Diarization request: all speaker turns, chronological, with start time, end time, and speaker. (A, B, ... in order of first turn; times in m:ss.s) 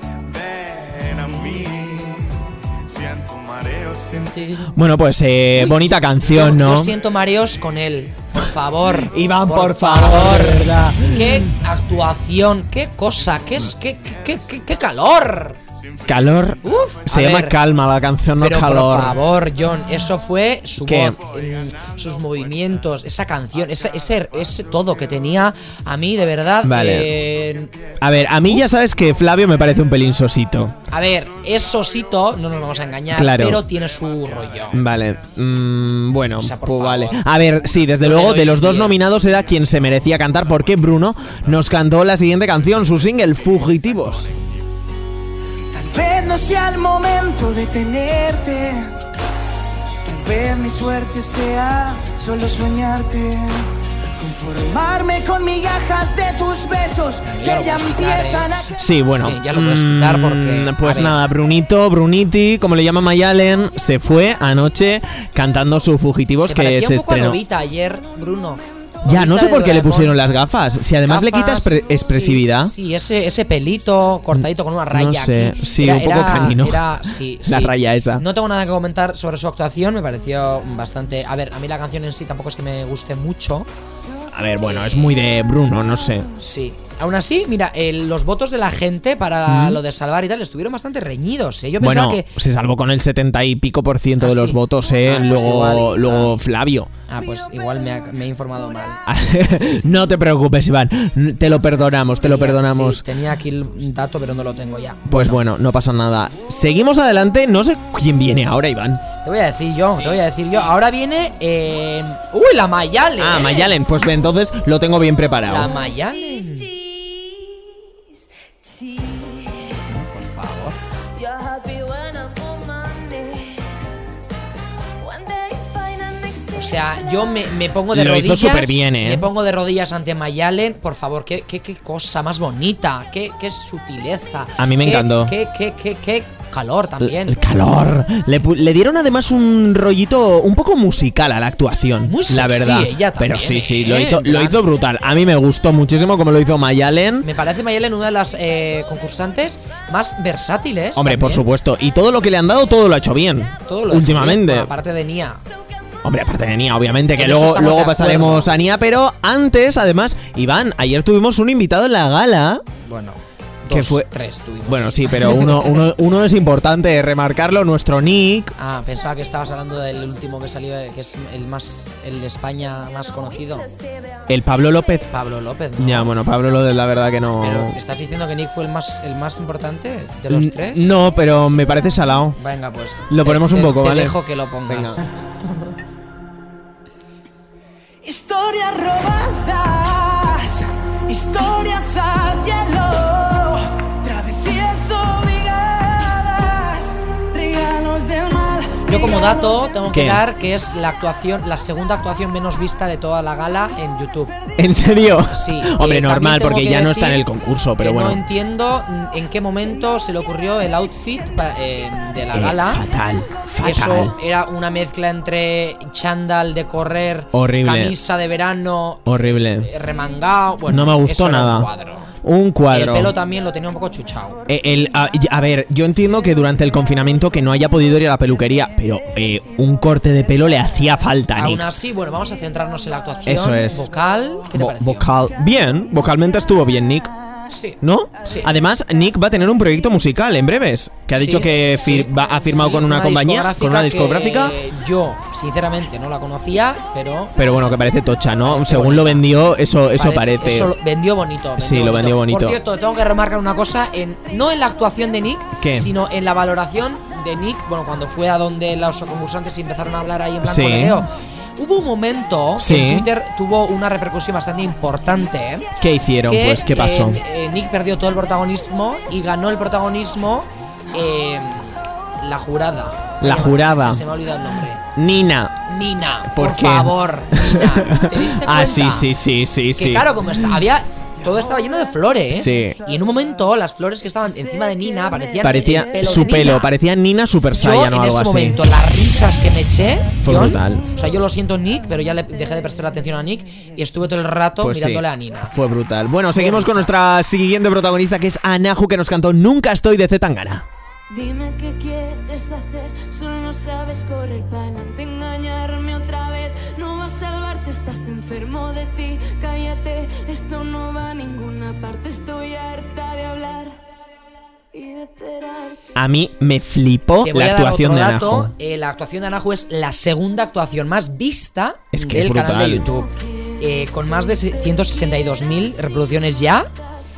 0:00.3-0:04.7 A
0:04.7-0:06.9 B
0:05.5-0:15.6 C
0:09.0-0:11.5 B
0:13.5-0:14.8 A
0:15.8-0:17.1 A
0:16.1-0:19.2 B
0:16.6-0:17.6 C
0:18.4-0:27.7 C
0:20.8-0:21.2 B
0:21.1-0:24.6 A
0:26.6-0:27.2 B
0:27.3-0:27.6 A
0:28.0-0:30.8 B
0:30.9-0:34.8 C
0:33.1-0:33.6 B
0:33.9-0:35.2 A
0:34.7-0:44.3 B
0:36.4-0:37.3 C
0:38.0-0:39.0 C
0:39.3-0:41.7 A
0:42.5-0:44.5 A
0:45.7-0:48.9 D
0:50.0-0:58.7 D
0:57.2-0:58.5 C
0:58.8-1:07.4 B
0:59.1-1:01.2 C
1:06.4-1:10.2 C
1:09.0-1:12.8 B
1:11.1-1:23.7 C
1:14.3-1:18.2 B
1:24.3-1:26.3 B
1:24.6-1:25.1 C
1:26.4-1:32.3 C
1:29.5-1:29.8 B
1:31.8-1:36.9 B
1:34.2-1:36.3 C
1:37.1-1:39.0 C
1:39.1-1:43.0 B
1:42.2-1:45.4 C
1:45.1-1:49.0 B
1:49.2-1:53.7 C
1:53.2-1:55.7 B
1:55.5-1:56.7 C
1:56.0-1:57.6 E
1:58.6-1:59.8 E
1:59.8-2:00.8 C
2:01.2-2:03.8 E
2:05.0-2:06.9 E
2:06.5-2:17.5 C
2:07.9-2:09.3 B
2:14.6-2:15.3 B
2:17.0-2:27.3 B
2:22.0-2:24.6 C
2:27.2-2:31.5 C
2:31.0-2:34.7 B
2:33.7-2:35.4 C
2:36.0-2:42.6 B
2:37.2-2:38.5 C
2:42.8-2:45.8 C
2:43.7-2:44.1 B
2:44.7-2:48.5 B
2:48.6-2:53.7 C
2:54.3-2:55.1 B
2:55.1-2:56.1 C
2:55.8-2:57.8 B
2:57.4-3:01.0 C
3:00.3-3:02.4 B
3:02.4-3:05.0 C
3:03.1-3:05.0 B
3:08.0-3:19.7 D
3:18.9-3:24.3 C
3:19.9-3:20.2 B
3:24.6-3:28.2 B
3:25.3-3:27.2 C
3:27.8-3:32.8 C
3:32.3-3:34.2 B
3:33.6-3:42.1 C
3:37.3-3:38.0 B
3:39.1-3:39.7 B
3:40.7-3:41.7 B
3:42.2-3:43.1 B
3:42.7-3:44.4 C
3:44.5-3:51.7 B
3:51.4-3:55.1 C
3:53.3-3:53.9 B
3:54.5-3:57.1 B
3:57.5-3:58.5 C
3:57.8-4:04.6 B
4:01.2-4:07.4 C
4:07.4-4:10.7 B
4:08.4-4:09.3 C
4:10.0-4:25.7 C
4:11.6-4:12.6 B
4:15.6-4:15.9 B
4:20.4-4:21.0 B
4:22.6-4:23.1 B
4:25.8-4:27.2 B
4:26.3-4:34.8 C
4:33.2-4:34.0 B
4:35.0-4:35.6 B
4:35.7-4:39.1 C
4:36.3-4:40.5 B
4:39.8-4:46.7 C
4:42.3-4:42.8 B
4:45.4-4:48.6 B
4:47.6-4:55.5 C
4:50.2-4:50.9 B
4:54.6-5:00.7 B
4:56.3-4:56.9 C
5:01.1-5:13.8 E
5:14.7-5:15.8 E
5:16.0-5:18.5 B
5:17.2-5:26.7 C
5:21.9-5:22.9 B
5:23.4-5:24.5 E